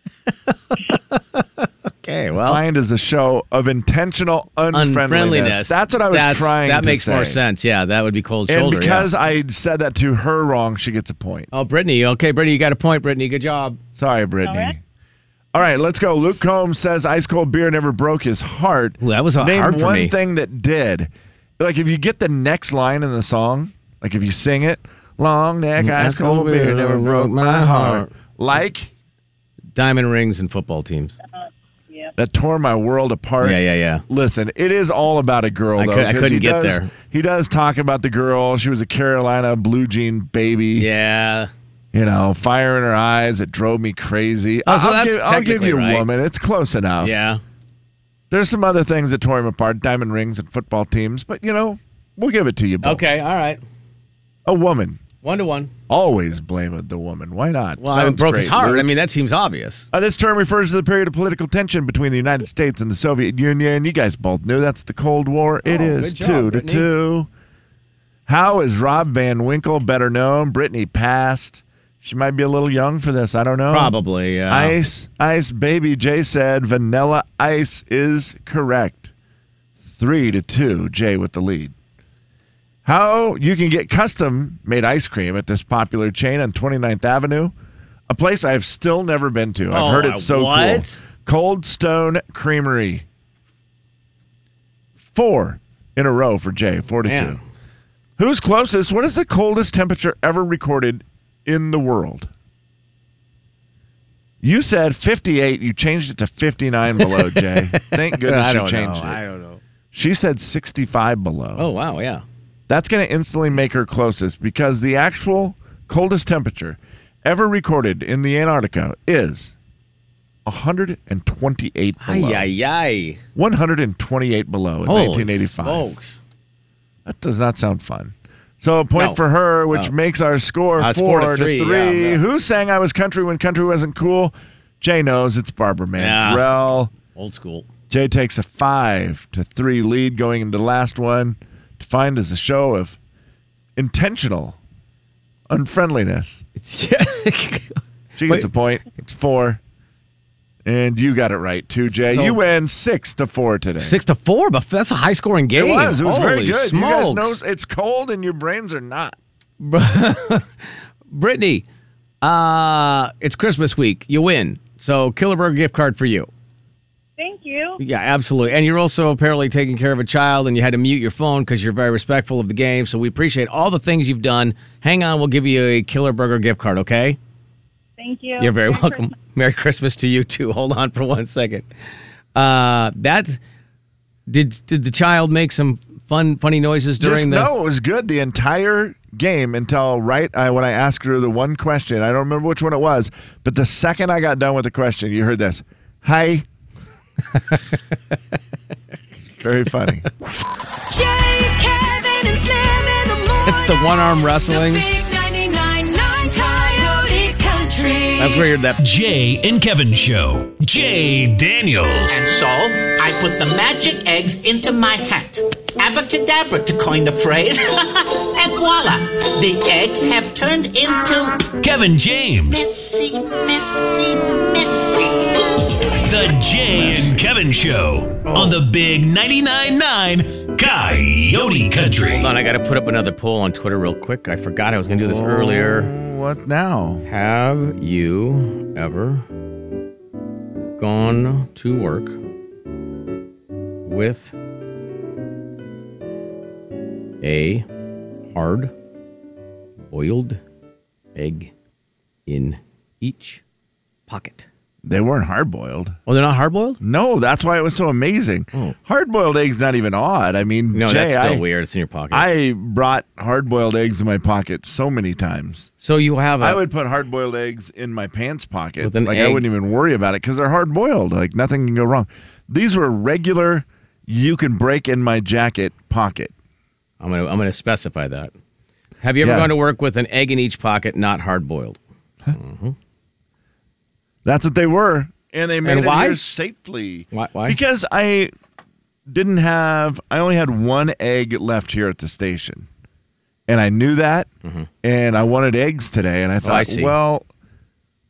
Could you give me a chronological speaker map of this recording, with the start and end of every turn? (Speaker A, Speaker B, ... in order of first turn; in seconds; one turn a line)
Speaker A: 0.5-2.6
Speaker B: 2.4-7.4
Speaker A: 4.7-9.1
Speaker B: 8.5-11.5
Speaker A: 11.5-13.8
Speaker B: 13.9-14.8
Speaker C: 14.4-14.7
Speaker B: 15.5-28.9
Speaker A: 19.0-20.1
Speaker A: 25.8-28.1
Speaker A: 29.7-31.2
Speaker B: 32.1-40.9
Speaker A: 33.4-34.0
Speaker A: 35.8-36.9
Speaker A: 40.8-41.5
Speaker B: 41.9-47.2
Speaker A: 44.6-46.1
Speaker A: 47.0-47.4
Speaker B: 48.3-53.0
Speaker A: 52.8-53.6
Speaker B: 54.5-55.0
Speaker A: 55.2-55.7
Speaker B: 55.9-58.9
Speaker A: 57.8-59.9
Speaker B: 59.9-67.3
Speaker A: 65.6-66.9
Speaker B: 68.3-73.9
Speaker A: 73.7-74.8
Speaker B: 74.5-79.1
Speaker B: 79.9-81.7
Speaker B: 82.8-87.5
Speaker B: 88.1-93.0
Speaker A: 89.7-91.0
Speaker B: 95.1-97.4
Speaker A: 97.0-97.4
Speaker B: 98.2-102.3
Speaker B: 104.4-109.2
Speaker A: 107.0-109.6
Speaker B: 109.9-111.7
Speaker A: 111.6-112.2
Speaker B: 112.7-119.5
Speaker B: 120.5-122.5
Speaker A: 122.0-123.2
Speaker B: 123.3-125.9
Speaker A: 124.8-126.2
Speaker B: 127.0-136.9
Speaker A: 128.9-129.9
Speaker A: 130.8-132.2
Speaker A: 136.0-136.4
Speaker A: 137.1-137.7
Speaker B: 137.9-143.0
Speaker B: 143.8-144.6
Speaker B: 145.5-146.4
Speaker A: 146.6-148.5
Speaker B: 148.2-149.6
Speaker B: 150.6-154.0
Speaker A: 152.0-152.4
Speaker A: 153.8-157.3
Speaker B: 155.5-159.2
Speaker A: 159.6-161.6
Speaker A: 162.2-166.3
Speaker C: 167.2-167.8
Speaker A: 167.8-177.2
Speaker C: 178.0-179.1
Speaker A: 178.4-181.7
Speaker A: 182.3-183.4
Speaker A: 184.3-187.5
Speaker B: 187.0-196.4
Speaker B: 199.4-200.1
Speaker D: 200.9-208.5
Speaker A: 203.4-204.8
Speaker A: 208.2-208.8
Speaker E: 208.8-212.2
Speaker F: 212.1-221.5
Speaker E: 221.6-222.7
Speaker F: 222.5-225.5
Speaker E: 226.0-232.3
Speaker A: 228.3-228.6
Speaker A: 232.1-235.9
Speaker B: 234.9-237.0
Speaker A: 237.1-239.2
Speaker A: 240.8-242.2
Speaker A: 243.8-244.3
Speaker A: 247.2-247.7
Speaker A: 248.3-248.7
Speaker A: 249.9-250.4
Speaker A: 251.1-251.5
Speaker A: 252.3-253.4
Speaker A: 254.1-254.5
Speaker B: 254.8-256.0
Speaker A: 256.1-256.8
Speaker B: 256.8-261.4
Speaker A: 260.7-262.3
Speaker B: 262.1-265.7
Speaker A: 265.8-266.6
Speaker B: 266.4-276.3
Speaker A: 268.8-269.4
Speaker A: 277.0-278.3
Speaker A: 279.0-281.8
Speaker B: 279.2-279.5
Speaker A: 282.3-282.7
Speaker B: 284.2-288.3
Speaker A: 285.6-286.2
Speaker A: 287.1-287.6
Speaker B: 289.1-292.7
Speaker B: 293.5-294.3
Speaker B: 294.8-297.2
Speaker A: 296.4-296.9